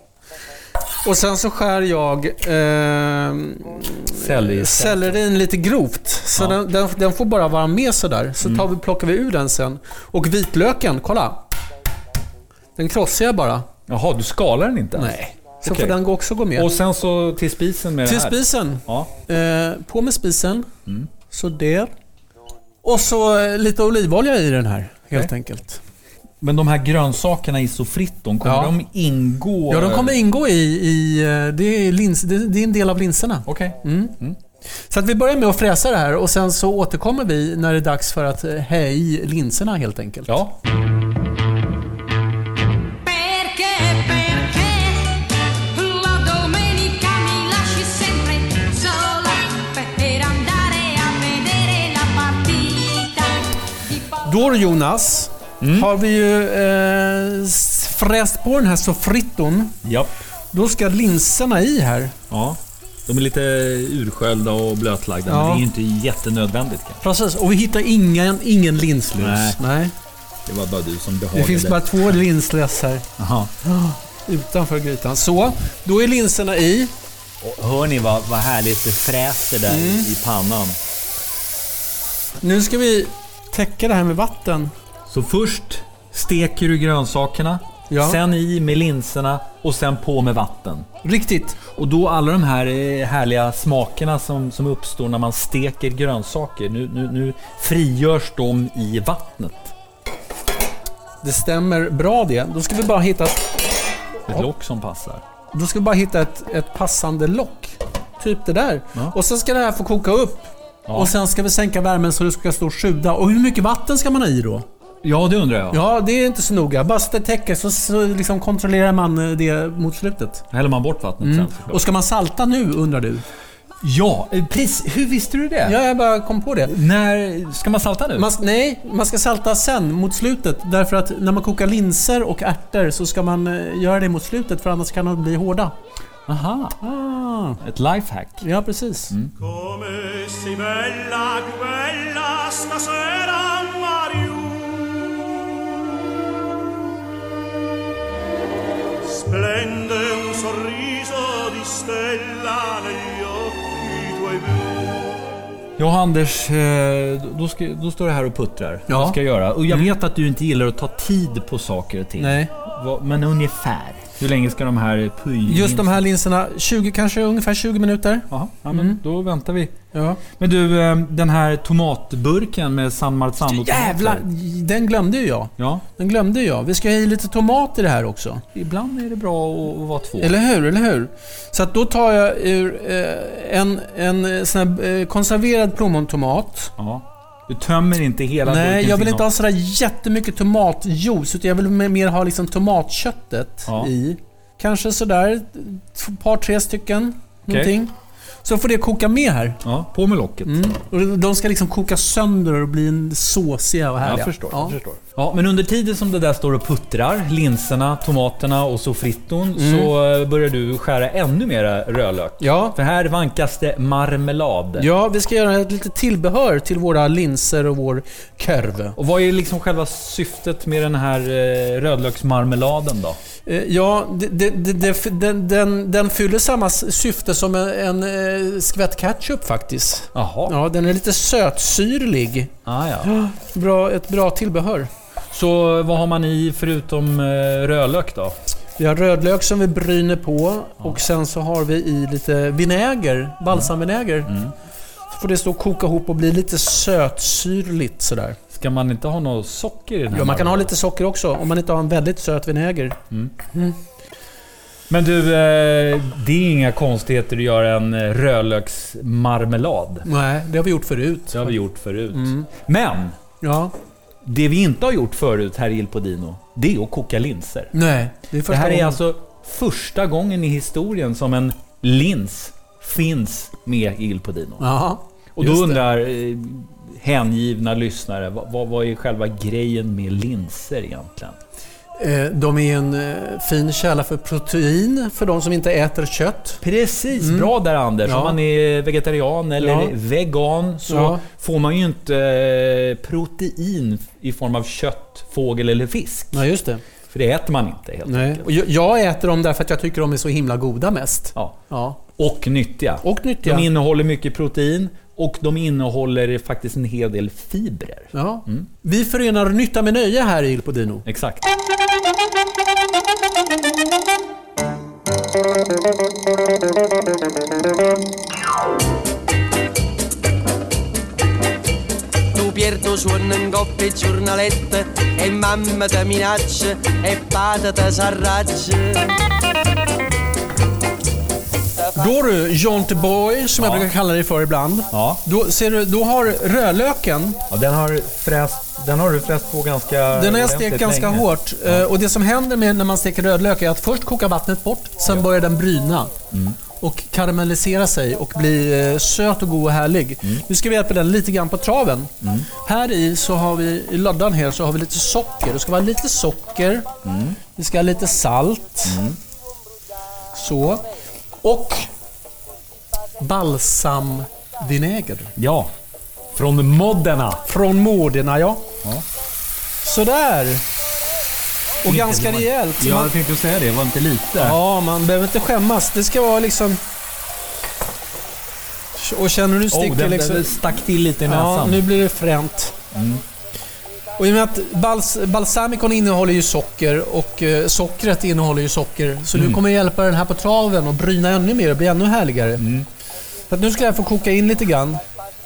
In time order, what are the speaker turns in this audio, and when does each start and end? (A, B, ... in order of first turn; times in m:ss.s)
0:01.0-0:11.4 A
0:04.1-0:05.2 B
0:06.4-0:06.6 B
0:12.8-0:13.6 A
0:13.9-0:16.0 B
0:15.0-0:16.7 A
0:16.5-0:19.1 B
0:18.0-0:20.7 A
0:21.3-0:21.9 A
0:22.8-0:25.8 A
0:26.4-0:30.2 B
0:28.4-0:28.7 A
0:29.7-0:34.1 A
0:33.5-0:34.4 B
0:34.9-0:40.4 A
0:40.3-0:40.6 B
0:43.0-0:53.9 C
0:54.1-0:59.8 A
0:55.6-0:55.9 B
0:59.8-1:00.1 B
1:00.5-1:02.1 A
1:02.3-1:07.0 B
1:05.2-1:05.6 A
1:07.0-1:09.9 A
1:09.1-1:09.6 B
1:10.4-1:12.0 B
1:11.3-1:13.0 A
1:13.2-1:13.5 B
1:13.7-1:16.9 A
1:17.4-1:20.8 B
1:19.7-1:20.1 A
1:22.4-1:24.7 A
1:25.1-1:30.8 B
1:27.9-1:28.2 A
1:31.0-1:31.6 A
1:31.7-1:39.7 B
1:41.2-1:43.6 A
1:44.3-1:45.2 B
1:45.5-1:54.6 A
1:50.8-1:51.1 B
1:55.0-1:55.8 B
1:55.7-2:00.4 A
2:00.5-2:01.8 B
2:01.2-2:03.2 A
2:03.8-2:05.8 B
2:05.6-2:06.7 A
2:06.6-2:08.3 B
2:08.1-2:15.7 A
2:16.3-2:16.8 B
2:16.8-2:17.6 A
2:17.6-2:18.4 B
2:18.4-2:19.1 A
2:21.1-2:23.0 D
2:23.7-2:24.9 D
2:30.2-2:32.7 E
2:35.8-2:46.0 B
2:38.9-2:39.2 A
2:42.2-2:42.5 A
2:45.4-2:49.0 A
2:48.3-2:49.7 B
2:49.9-2:50.2 A
2:50.4-2:54.2 B
2:53.4-2:58.4 A
2:55.6-2:55.8 B
2:58.5-3:00.4 B
3:00.2-3:06.7 A
3:06.8-3:09.3 B
3:08.4-3:17.9 A
3:13.7-3:13.9 B
3:17.5-3:17.7 B
3:18.4-3:19.6 A
3:19.6-3:20.7 B
3:20.4-3:24.8 A
3:24.0-3:34.9 B
3:29.5-3:29.9 A
3:32.4-3:32.8 A
3:34.8-3:39.0 A
3:39.0-3:43.2 B
3:43.4-3:52.5 A
3:50.1-3:50.6 B
3:52.6-3:53.1 B
3:53.0-3:54.9 A
3:55.3-3:58.3 B
3:58.8-4:04.3 A
4:04.2-4:04.5 B
4:05.1-4:08.4 A
4:08.5-4:10.7 B
4:10.1-4:13.0 A
4:14.9-4:20.0 B
4:20.0-4:21.6 A
4:21.3-4:23.2 B
4:22.1-4:22.5 A
4:23.4-4:23.7 A
4:24.2-4:27.7 B
4:27.7-4:29.0 A
4:28.5-4:34.6 B
4:34.6-4:35.8 A
4:35.4-4:41.4 B
4:42.0-4:46.6 A
4:46.6-4:56.4 B
4:47.2-4:47.5 A
4:48.0-4:48.4 A
4:49.6-4:49.9 A
4:50.9-4:51.2 A
4:56.3-4:56.8 A
4:57.1-4:58.5 B
4:58.0-5:02.0 A
5:02.1-5:08.7 B
5:03.0-5:03.7 A
5:08.1-5:11.0 A
5:11.0-5:11.5 B
5:22.3-5:29.1 E
5:24.8-5:25.3 D
5:31.9-5:37.4 A
5:33.6-5:33.9 B
5:34.9-5:35.2 B
5:37.5-5:41.9 B
5:40.1-5:46.1 A
5:46.3-5:46.6 B
5:46.8-5:56.9 A
5:52.2-5:52.5 B
5:57.0-5:57.4 B
5:57.6-5:59.0 A
5:58.8-5:59.2 B
6:00.3-6:00.8 A
6:01.4-6:01.9 A
6:03.2-6:05.3 A
6:05.4-6:05.7 B
6:06.3-6:07.4 B
6:07.4-6:08.6 A
6:09.8-6:10.6 A
6:11.8-6:13.1 A
6:11.8-6:14.6 B
6:14.4-6:16.8 A
6:18.9-6:22.7 A
6:19.7-6:21.9 B
6:22.9-6:23.2 B
6:24.2-6:32.6 A
6:29.3-6:29.6 B
6:32.6-6:32.9 B
6:33.5-6:35.0 A